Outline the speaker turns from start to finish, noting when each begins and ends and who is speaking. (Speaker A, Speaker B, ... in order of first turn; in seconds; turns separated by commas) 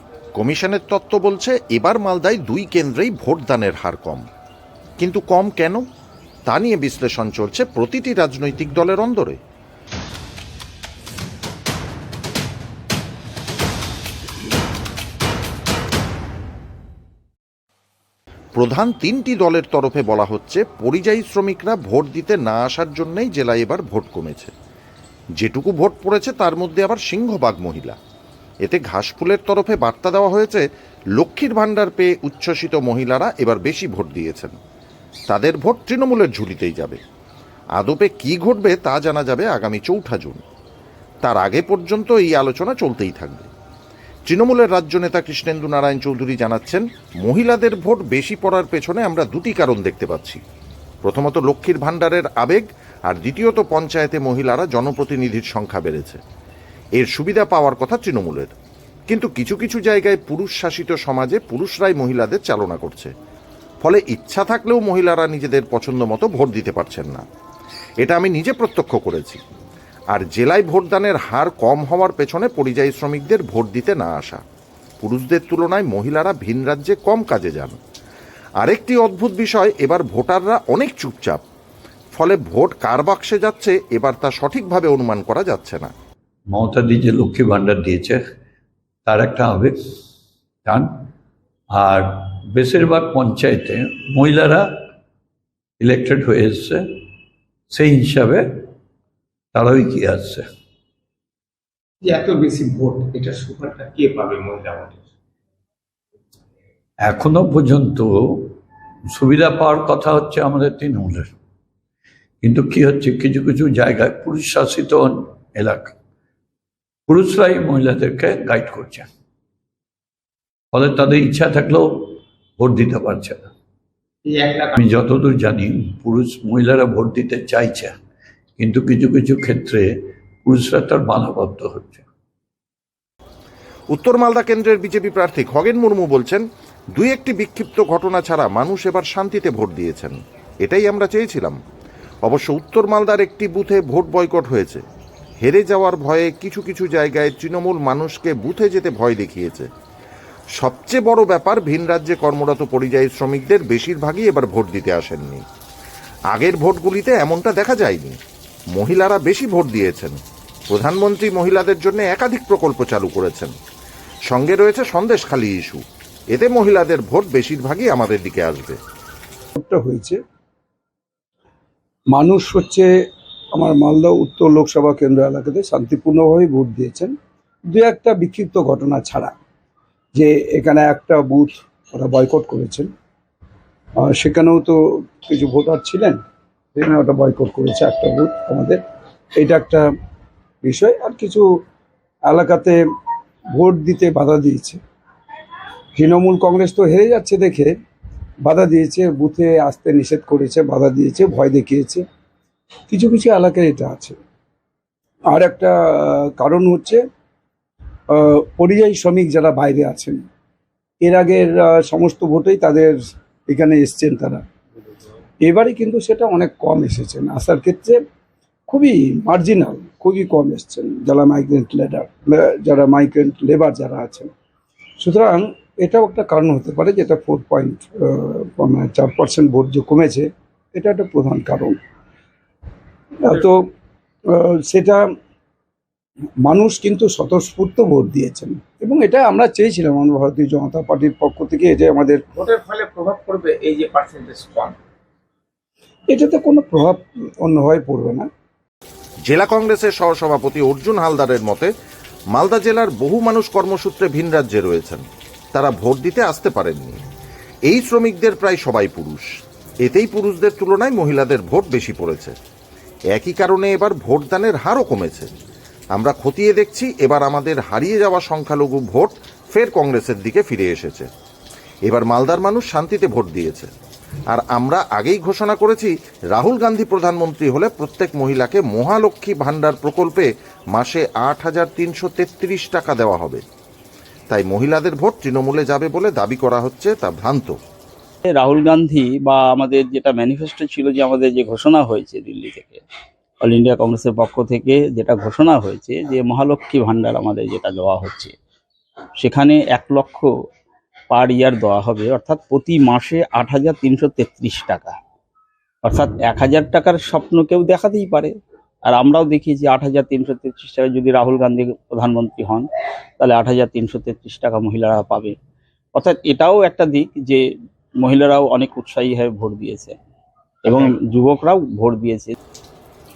Speaker A: 0.4-4.2, Speaker A: 5.0-5.8, Speaker A: 6.5-9.4, Speaker A: 18.6-24.5, Speaker A: 25.4-28.0, Speaker A: 28.6-30.6, Speaker A: 31.2-34.6, Speaker A: 35.3-37.0, Speaker A: 37.8-40.4, Speaker A: 41.2-43.5, Speaker A: 44.3-50.4, Speaker A: 51.0-56.2, Speaker A: 57.0-58.5, Speaker A: 59.1-63.1, Speaker A: 63.8-67.2, Speaker A: 68.0-69.4, Speaker A: 70.1-74.4, Speaker A: 75.0-77.8, Speaker A: 78.6-81.4, Speaker A: 82.1-85.9, Speaker B: 86.5-88.2, Speaker B: 89.1-89.8, Speaker B: 90.7-91.1, Speaker B: 91.7-94.7, Speaker B: 95.8-96.8, Speaker B: 97.7-98.7, Speaker B: 99.5-100.4, Speaker C: 102.0-105.1, Speaker B: 107.0-111.3, Speaker B: 112.4-115.9, Speaker B: 117.1-119.1, Speaker B: 120.7-123.5, Speaker C: 124.3-124.8, Speaker B: 124.8-127.9, Speaker B: 128.6-129.9, Speaker B: 130.4-132.1, Speaker A: 133.9-136.4, Speaker A: 136.9-141.6, Speaker A: 142.2-144.8, Speaker A: 145.4-149.7, Speaker A: 150.6-155.4, Speaker A: 156.3-158.2, Speaker A: 158.7-160.2, Speaker A: 160.7-163.5, Speaker A: 164.3-168.8, Speaker D: 169.6-170.2, Speaker D: 172.1-172.9, Speaker D: 173.6-177.1, Speaker D: 177.7-179.3, Speaker D: 180.1-182.9, Speaker D: 184.0-186.2, Speaker D: 186.8-188.8, Speaker D: 189.4-189.9, Speaker D: 190.6-191.5, Speaker D: 192.3-192.8, Speaker D: 193.6-194.8, Speaker D: 196.0-197.7, Speaker D: 198.4-202.0, Speaker D: 202.9-204.2, Speaker D: 205.3-207.0, Speaker D: 208.1-210.2, Speaker D: 211.0-212.9, Speaker D: 213.5-214.4, Speaker D: 215.4-218.0, Speaker D: 218.7-224.3, Speaker D: 225.0-231.8, Speaker D: 233.2-233.6, Speaker D: 234.3-235.0, Speaker D: 236.4-242.2, Speaker C: 242.3-244.7, Speaker D: 246.1-248.3, Speaker A: 249.3-251.7, Speaker A: 252.3-257.0, Speaker A: 257.7-259.3, Speaker A: 259.8-262.3, Speaker A: 263.1-265.3, Speaker A: 265.9-271.1, Speaker A: 271.9-273.7, Speaker A: 274.3-283.4, Speaker A: 284.3-287.6, Speaker E: 288.3-292.8, Speaker E: 293.4-298.4, Speaker E: 299.2-300.3, Speaker E: 301.1-305.0, Speaker E: 305.8-308.3, Speaker E: 308.9-312.7, Speaker E: 313.2-315.4, Speaker E: 315.9-317.4, Speaker E: 318.0-320.0, Speaker E: 320.6-322.4